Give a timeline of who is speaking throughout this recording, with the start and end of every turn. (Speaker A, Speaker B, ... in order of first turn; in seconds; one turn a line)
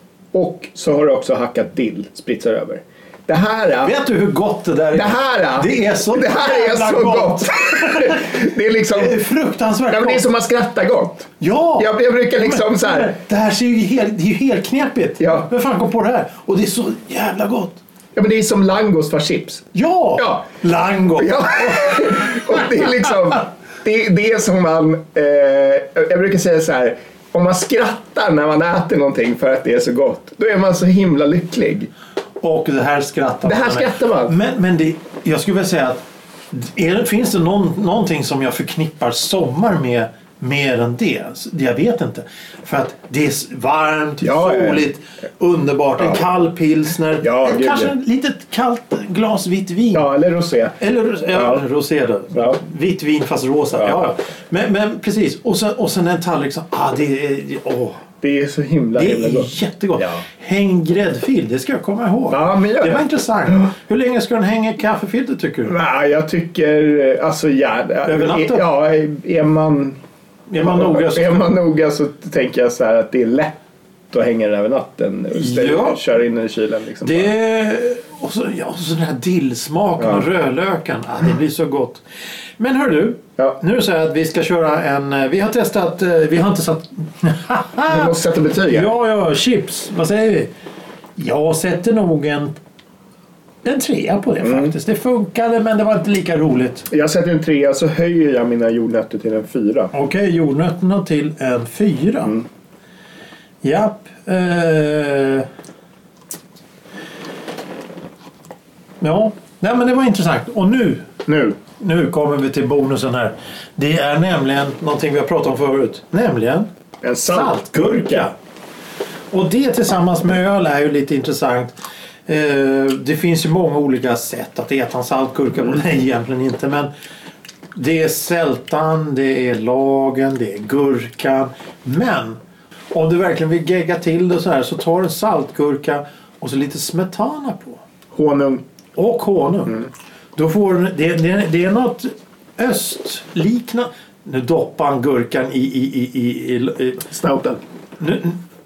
Speaker A: 0.3-3.9
Speaker B: 3.8-8.4
Speaker A: 4.9-9.2
Speaker B: 8.9-10.2
Speaker A: 9.9-13.1
Speaker B: 11.4-17.8
Speaker A: 15.2-15.5
Speaker A: 18.1-20.4
Speaker B: 19.7-22.6
Speaker A: 21.2-31.9
Speaker B: 32.4-50.1
Speaker A: 33.4-34.3
Speaker A: 44.2-44.8
Speaker A: 47.2-47.9
Speaker A: 49.9-50.8
Speaker B: 50.8-58.0
Speaker A: 51.3-51.6
Speaker A: 52.3-52.6
Speaker A: 53.8-54.0
Speaker A: 58.2-60.2
Speaker B: 59.0-65.8
Speaker A: 62.3-63.0
Speaker A: 65.7-70.0
Speaker B: 68.0-68.6
Speaker B: 70.5-71.4
Speaker A: 70.6-73.6
Speaker A: 74.1-77.3
Speaker B: 75.3-76.0
Speaker B: 77.0-82.0
Speaker A: 80.0-80.2
Speaker B: 82.6-88.1
Speaker A: 87.9-88.9
Speaker B: 88.7-90.5
Speaker B: 91.2-92.6
Speaker B: 93.6-96.9
Speaker A: 94.4-94.7
Speaker A: 96.9-99.9
Speaker B: 99.9-102.3
Speaker B: 103.6-105.5
Speaker B: 109.0-111.1
Speaker A: 111.2-111.6
Speaker B: 111.8-116.7
Speaker A: 117.0-118.3
Speaker B: 117.3-118.3
Speaker B: 119.3-121.7
Speaker B: 122.3-126.9
Speaker B: 127.7-132.4
Speaker B: 132.9-137.8
Speaker A: 138.1-138.6
Speaker B: 138.9-147.1
Speaker A: 147.1-147.6
Speaker B: 148.0-148.4